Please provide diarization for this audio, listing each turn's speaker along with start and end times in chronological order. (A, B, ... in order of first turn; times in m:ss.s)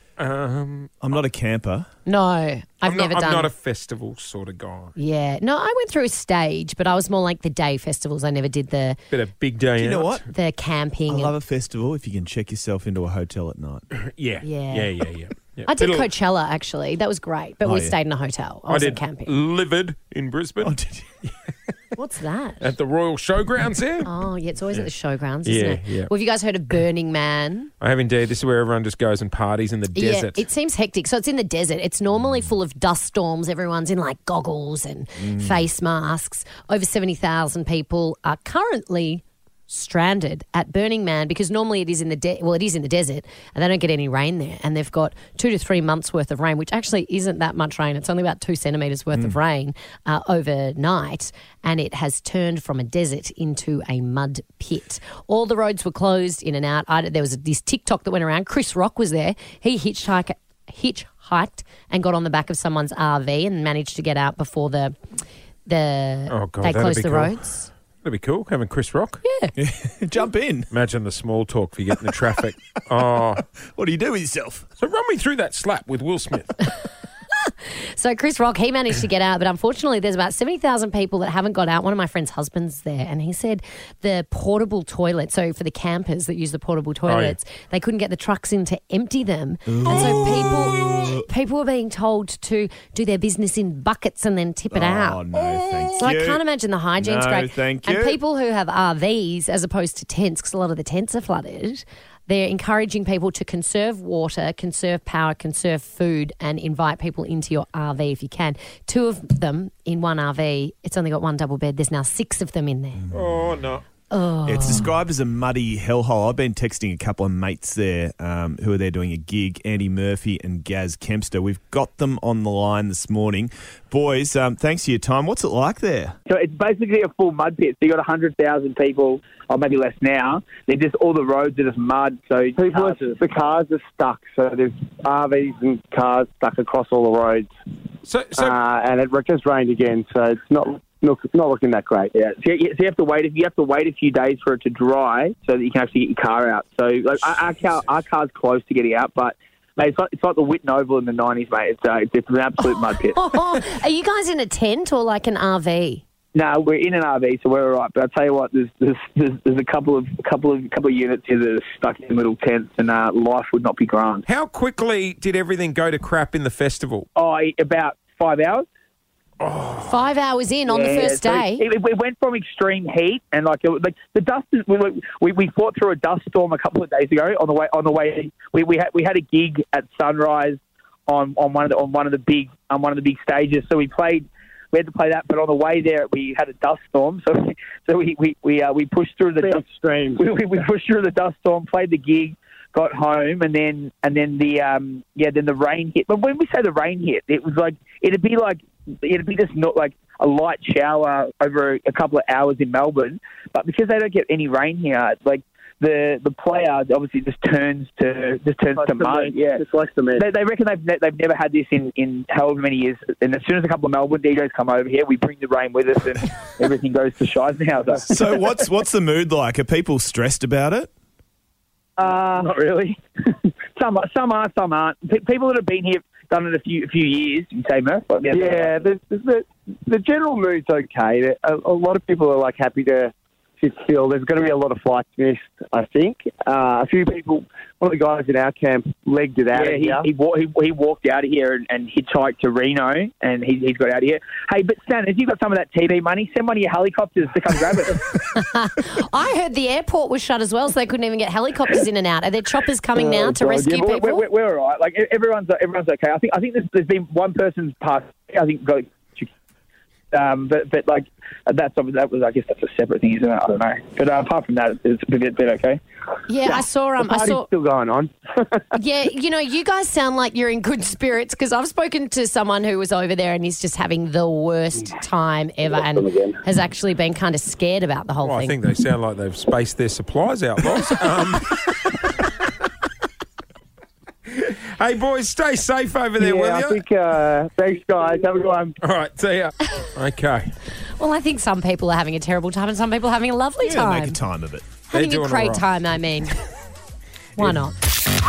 0:00.2-0:00.9 A
0:01.0-0:01.9 B
0:02.1-0:03.5 C
0:02.8-0:05.0 A
0:05.0-0:09.0 C
0:09.1-0:10.3 A
0:09.8-0:10.3 B
0:10.3-0:11.3 C
0:11.1-0:13.8 B
0:13.9-0:16.1 A
0:14.4-0:15.0 C
0:15.7-0:19.3 C
0:17.6-0:18.0 B
0:18.7-0:20.8 A
0:20.6-0:21.1 B
0:22.0-0:22.7 C
0:22.6-0:24.1 A
0:24.0-0:27.7 C
0:25.4-0:26.1 A
0:27.8-0:30.4 A
0:29.9-1:04.9 C
1:05.7-1:07.7 C
1:06.3-1:07.4 A
1:08.0-1:09.2 A
1:09.2-1:09.5 C
1:09.6-1:10.7 B
1:10.7-1:13.4 A
1:13.6-1:14.6 B
1:14.8-1:16.6 A
1:17.4-1:35.2 C
1:27.1-1:27.4 A
1:29.7-1:31.2 B
1:34.7-1:36.4 B
1:36.0-1:53.0 C
1:37.0-1:38.2 B
1:53.1-1:53.8 A
1:54.1-1:54.9 C
1:54.4-2:06.2 B
2:06.3-2:13.2 D
2:12.6-2:17.5 E
2:18.0-2:18.6 A
2:18.4-2:22.1 E
2:22.1-2:33.2 D
2:33.1-2:36.0 C
2:36.3-2:44.2 D
2:44.3-2:47.1 A
2:47.2-2:48.7 D
2:49.4-2:50.0 A
2:49.8-2:51.6 C
2:50.7-3:09.6 D
3:09.4-3:10.2 E
3:10.2-3:29.6 D
3:28.8-3:30.3 E
3:30.2-3:38.2 D
3:38.1-3:40.9 B
3:42.0-3:48.7 D
3:48.3-4:00.1 E
3:59.5-4:08.0 D
4:08.2-4:14.2 C
4:13.3-4:19.3 D
4:20.1-4:25.8 D
4:26.3-4:27.5 C
4:26.4-4:28.7 E
4:28.7-4:38.6 C
4:35.9-4:36.4 E
4:38.2-4:42.0 A
4:44.3-4:46.8 A
4:46.2-4:48.8 E
4:48.8-4:50.5 A
4:51.0-4:54.2 C
4:53.6-4:54.7 B
4:54.9-4:56.4 C
4:54.9-4:55.7 A
4:57.4-4:57.8 C